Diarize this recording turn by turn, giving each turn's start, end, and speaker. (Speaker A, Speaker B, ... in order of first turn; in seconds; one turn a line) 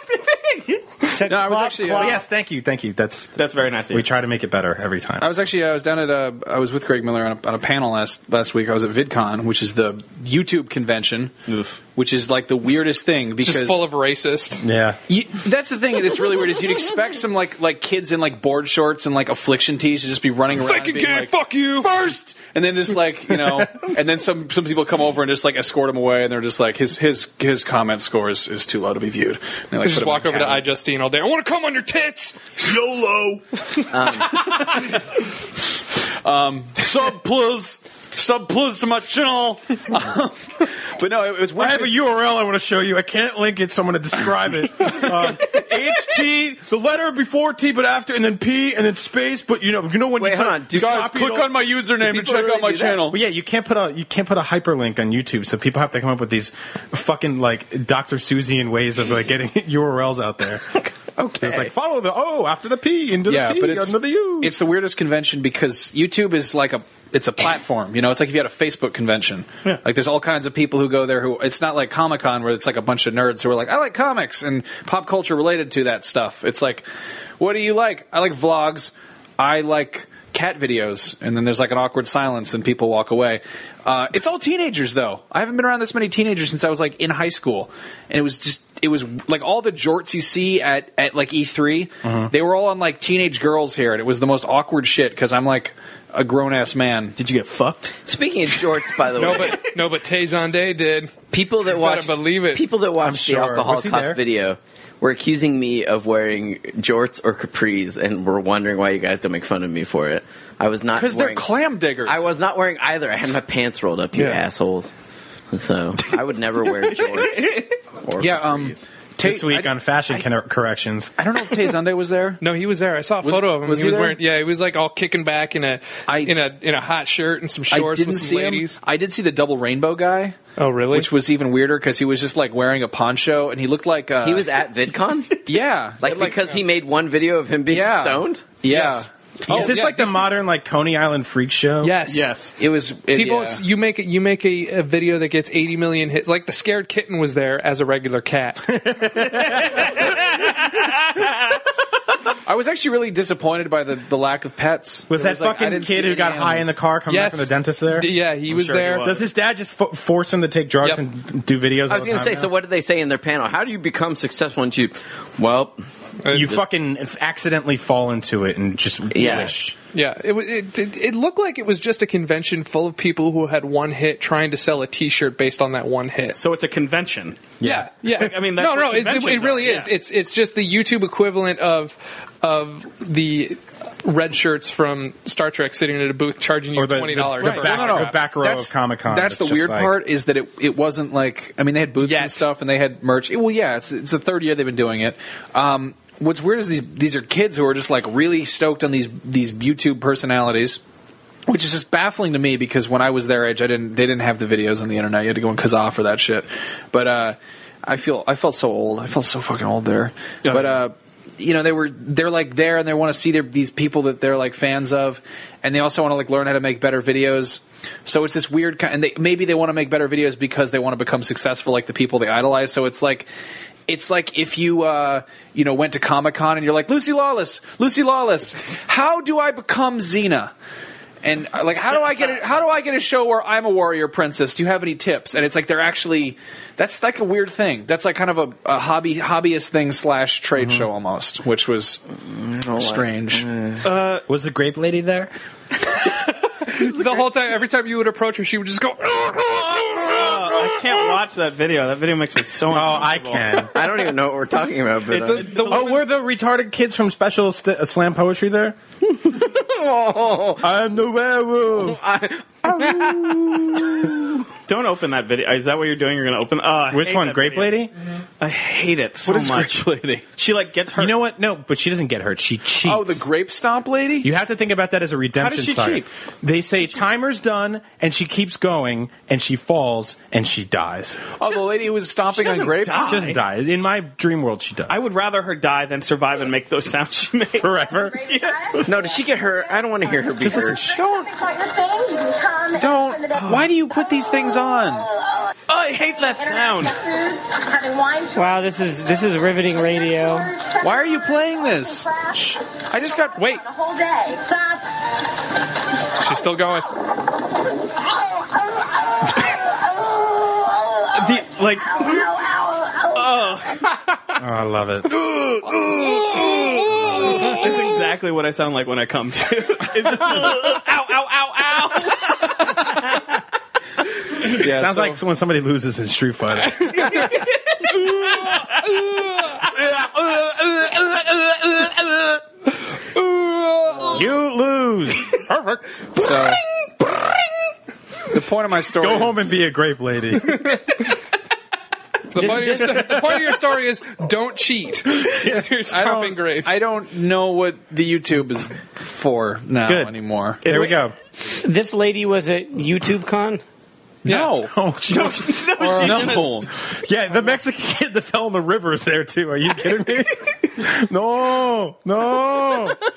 Speaker A: 0.2-0.8
Speaker B: 1.1-2.2
Speaker C: 1.3-2.2
Speaker D: 1.9-3.4
Speaker A: 3.4-4.1
Speaker D: 3.9-5.3
Speaker C: 5.2-11.3
Speaker A: 11.5-11.8
Speaker C: 11.9-13.8
Speaker E: 13.4-14.6
Speaker D: 14.6-15.0
Speaker C: 15.1-30.6
Speaker E: 20.6-21.9
Speaker E: 29.8-32.6
Speaker F: 33.9-34.5
Speaker C: 34.2-35.0
Speaker C: 36.2-42.0
Speaker D: 41.5-51.5
Speaker F: 50.2-53.0
Speaker C: 50.7-53.2
Speaker D: 53.1-60.7
Speaker F: 61.2-61.7
Speaker D: 61.4-64.5
Speaker C: 63.3-76.8
Speaker C: 77.4-97.1
Speaker D: 92.0-92.3
Speaker A: 97.2-98.0
Speaker F: 98.0-99.7
Speaker E: 99.2-101.1
Speaker A: 99.4-99.6
Speaker F: 101.3-111.5
Speaker E: 101.7-102.7
Speaker D: 103.0-104.2
Speaker C: 110.9-112.3
Speaker F: 112.0-114.9
Speaker E: 114.1-114.4
Speaker F: 115.5-118.9
Speaker A: 116.8-117.8
Speaker C: 118.2-120.2
Speaker D: 119.2-121.1
Speaker C: 121.2-122.4
Speaker E: 122.4-128.8
Speaker C: 123.2-124.2
Speaker C: 126.1-126.4
Speaker C: 127.7-130.4
Speaker E: 130.6-131.1
Speaker C: 130.9-134.5
Speaker F: 134.2-135.4
Speaker C: 135.5-136.4
Speaker F: 136.0-138.4
Speaker C: 137.7-140.2
Speaker E: 138.7-139.8
Speaker D: 139.5-142.0
Speaker E: 141.8-142.3
Speaker A: 142.1-142.5
Speaker C: 142.6-143.6
Speaker E: 143.1-148.7
Speaker D: 148.7-150.0
Speaker C: 152.4-156.8
Speaker D: 155.1-158.1
Speaker E: 157.1-159.1
Speaker A: 158.5-159.2
Speaker D: 159.0-162.5
Speaker F: 161.9-165.8
Speaker E: 166.2-166.6
Speaker D: 166.3-169.8
Speaker F: 169.1-169.6
Speaker E: 169.9-176.4
Speaker A: 176.3-177.5
Speaker D: 177.6-177.9
Speaker E: 177.6-188.2
Speaker A: 178.1-179.9
Speaker D: 186.8-189.9
Speaker A: 187.4-187.7
Speaker C: 187.5-200.8
Speaker C: 201.5-223.3
Speaker A: 210.4-210.8
Speaker C: 223.9-230.5
Speaker C: 231.2-242.0
Speaker D: 240.6-240.9
Speaker F: 242.2-243.9
Speaker C: 242.8-243.5
Speaker A: 243.8-244.2
Speaker D: 244.3-245.3
Speaker E: 246.6-250.1
Speaker A: 250.0-253.6
Speaker D: 252.7-253.8
Speaker F: 253.7-255.6
Speaker E: 255.1-255.9
Speaker A: 255.2-255.9
Speaker D: 255.6-258.8
Speaker F: 259.1-260.7
Speaker D: 260.6-262.0
Speaker F: 261.8-264.4
Speaker D: 262.7-263.9
Speaker A: 264.7-267.8
Speaker D: 266.9-267.9
Speaker A: 268.4-271.2
Speaker C: 269.2-270.2
Speaker D: 270.9-273.2
Speaker C: 272.8-274.3
Speaker D: 274.2-281.3
Speaker A: 275.3-276.1
Speaker C: 281.4-283.2
Speaker A: 282.3-283.4
Speaker D: 283.0-285.0
Speaker A: 284.9-289.0
Speaker D: 287.6-288.3
Speaker F: 288.9-290.8
Speaker D: 290.4-291.1
Speaker C: 292.7-295.1
Speaker A: 293.4-293.6
Speaker A: 295.7-297.1
Speaker B: 298.3-300.5
Speaker C: 300.8-303.6
Speaker E: 303.4-303.6
Speaker E: 306.2-306.9
Speaker A: 311.1-312.5
Speaker A: 313.0-313.9
Speaker D: 314.4-315.1
Speaker E: 315.2-317.9
Speaker A: 316.1-322.6
Speaker C: 324.6-325.2
Speaker D: 324.6-327.2
Speaker E: 328.2-329.6
Speaker D: 329.8-332.3
Speaker E: 333.1-334.2
Speaker D: 334.1-335.4
Speaker E: 335.4-335.8
Speaker C: 336.1-336.6
Speaker C: 338.3-339.6
Speaker D: 339.0-340.8
Speaker E: 340.5-341.0
Speaker E: 342.3-346.8
Speaker B: 342.4-343.1
Speaker D: 345.4-345.6
Speaker C: 345.9-350.6
Speaker D: 349.9-350.1
Speaker A: 350.6-351.0
Speaker D: 350.6-351.1
Speaker B: 351.6-353.6
Speaker C: 354.2-354.7
Speaker E: 354.3-354.5
Speaker D: 354.3-356.3
Speaker A: 355.1-356.6
Speaker C: 355.9-356.7
Speaker D: 357.0-363.0